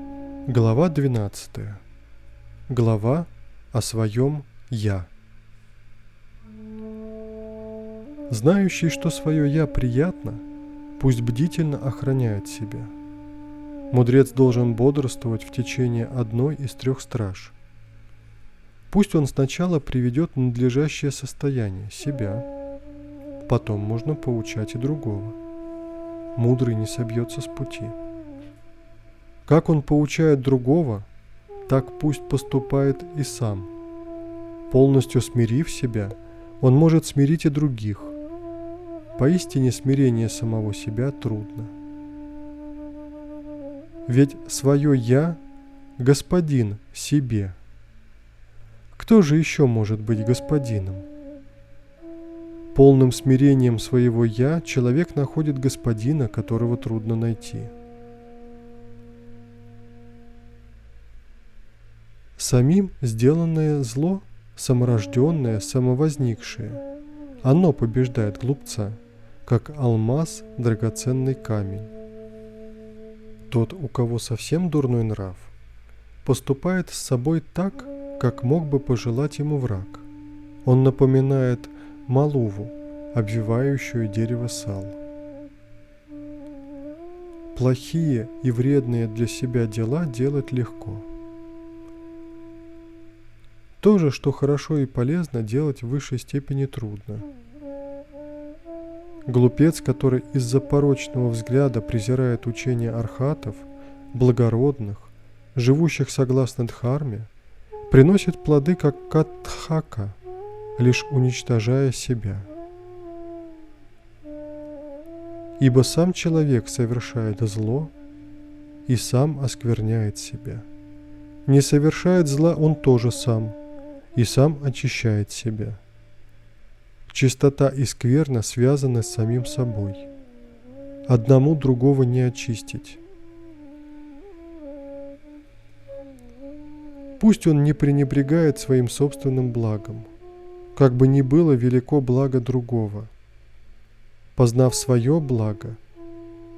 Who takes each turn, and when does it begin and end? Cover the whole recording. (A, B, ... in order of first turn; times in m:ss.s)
0:00.5-0:01.8 A
0:02.7-0:05.1 A
0:08.3-0:10.4 A
0:11.0-0:12.9 A
0:13.9-0:17.6 A
0:18.9-0:22.5 A
0:23.4-0:25.4 A
0:26.4-0:28.0 A
0:29.4-0:31.1 A
0:31.7-0:33.7 A
0:34.7-0:38.2 A
0:39.2-0:41.7 A
0:44.1-0:45.4 A
0:46.0-0:47.6 A
0:48.9-0:51.1 A
0:52.7-0:57.7 A
1:02.4-1:06.8 A
1:07.4-1:11.9 A
1:13.5-1:15.5 A
1:16.2-1:20.1 A
1:20.6-1:25.0 A
1:27.5-1:31.1 A
1:33.8-1:37.3 A
1:39.3-1:47.3 A
1:47.9-1:50.2 A
1:50.8-1:52.5 A
1:55.6-1:57.9 A
1:58.9-2:00.6 A
2:01.4-2:03.6 A
2:04.1-2:05.8 A
2:07.1-2:10.1 A
2:11.1-2:13.0 A
2:17.2-2:20.1 A
2:20.7-2:23.1 A
2:24.4-2:25.8 A